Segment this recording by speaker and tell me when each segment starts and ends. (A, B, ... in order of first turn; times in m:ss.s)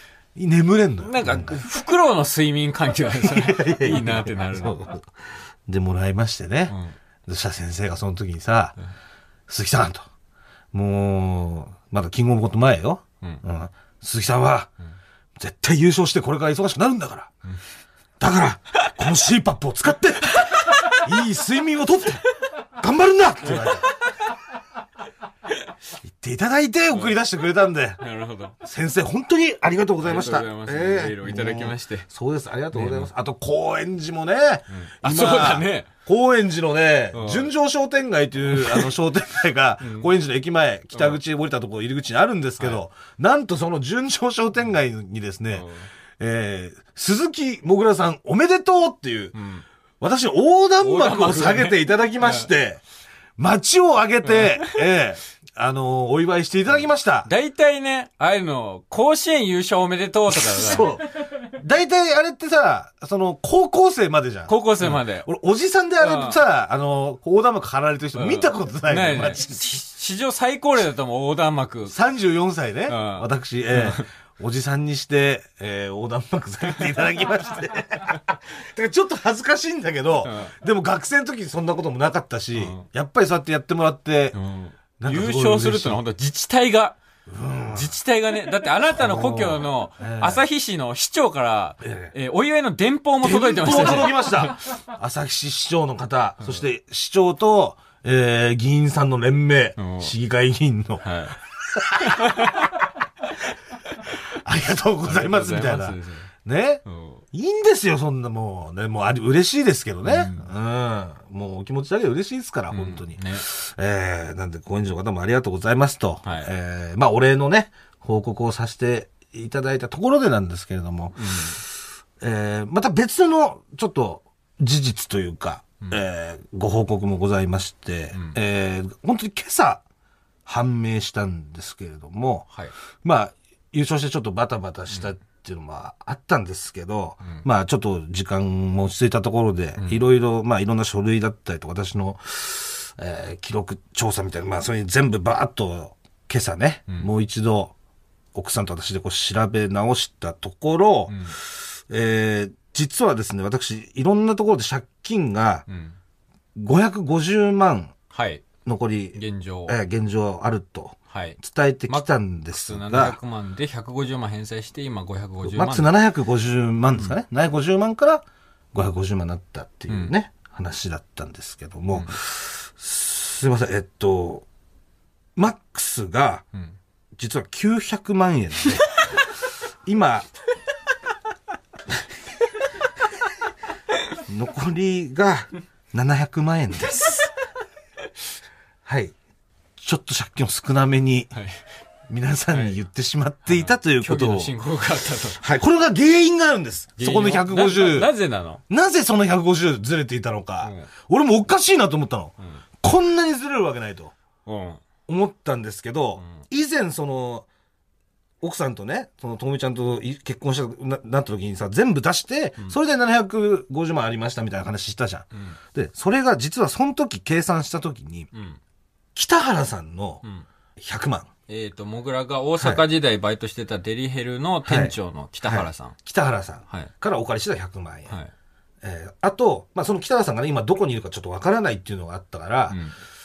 0:00.4-0:01.6 A
0:01.0-0:04.8 B
0:03.2-0:05.1 A
0:05.7-0:06.8 A
0:06.7-0:06.9 B
0:07.3-0:08.8 A
0:09.5-0:10.0 A
0:10.7-0:14.7 A
0:15.4-0:17.3 A
0:18.2-0:22.2 A
0:20.7-0:21.0 B
0:22.8-0:23.9 A
0:23.5-0:23.8 B
0:26.0-0:28.0 A
0:28.0-0:28.6 B
0:28.6-0:45.7 A
0:30.0-0:32.1 B
0:32.7-0:33.1 B
0:34.8-0:35.9 B
0:37.1-0:37.5 B
0:38.5-0:38.9 B
0:39.8-0:40.1 B
0:45.5-0:45.9 B
0:46.2-0:49.4 A
0:49.3-0:49.6 B
0:50.0-0:52.8 A
0:50.8-0:52.5 B
0:53.4-0:57.3 A
0:54.3-0:54.7 B
0:57.3-1:00.9 B
1:00.3-1:09.6 A
1:04.5-1:05.3 B
1:06.0-1:06.4 B
1:08.2-1:12.0 B
1:11.9-1:24.4 A
1:12.9-1:14.0 B
1:20.2-1:20.5 B
1:22.6-1:22.8 B
1:24.3-1:27.0 B
1:25.0-1:26.0 A
1:27.3-1:28.0 A
1:27.7-1:34.5 B
1:28.9-1:30.4 A
1:31.8-1:32.1 A
1:33.2-1:41.0 A
1:39.8-1:40.1 B
1:41.0-1:41.4 B
1:42.0-1:42.7 B
1:44.4-2:01.7 A
1:45.0-1:46.3 B
1:46.9-1:47.2 B
1:50.1-1:50.4 B
1:52.7-1:53.4 B
1:56.2-1:56.5 B
2:01.2-2:01.6 B
2:02.2-2:09.8 A
2:10.5-2:12.5 A
2:13.0-2:27.7 A
2:28.4-2:35.7 A
2:31.1-2:31.3 B
2:35.7-2:36.0 B
2:36.6-2:37.9 A
2:38.1-2:38.5 B
2:38.6-2:43.2 A
2:39.2-2:39.8 B
2:41.1-2:41.4 B
2:41.9-2:45.9 B
2:45.4-2:48.2 A
2:48.7-2:54.4 A
2:49.9-2:50.1 B
2:55.4-2:56.5 A
2:57.2-2:59.2 A
2:59.9-3:00.3 A
3:04.3-3:07.2 A
3:08.9-3:09.1 A
3:09.8-3:11.4 A
3:12.1-3:14.5 A
3:12.5-3:12.8 B
3:13.5-3:15.4 B
3:15.4-3:18.1 A
3:17.0-3:18.6 B
3:18.7-3:24.1 A
3:20.6-3:20.9 B
3:24.5-3:24.8 B
3:25.1-3:27.5 A
3:28.4-3:38.3 A
3:38.3-3:38.6 B
3:39.2-3:40.2 A
3:40.8-3:41.3 A
3:41.5-3:46.0 B
3:44.7-3:48.1 A
3:48.8-3:52.8 A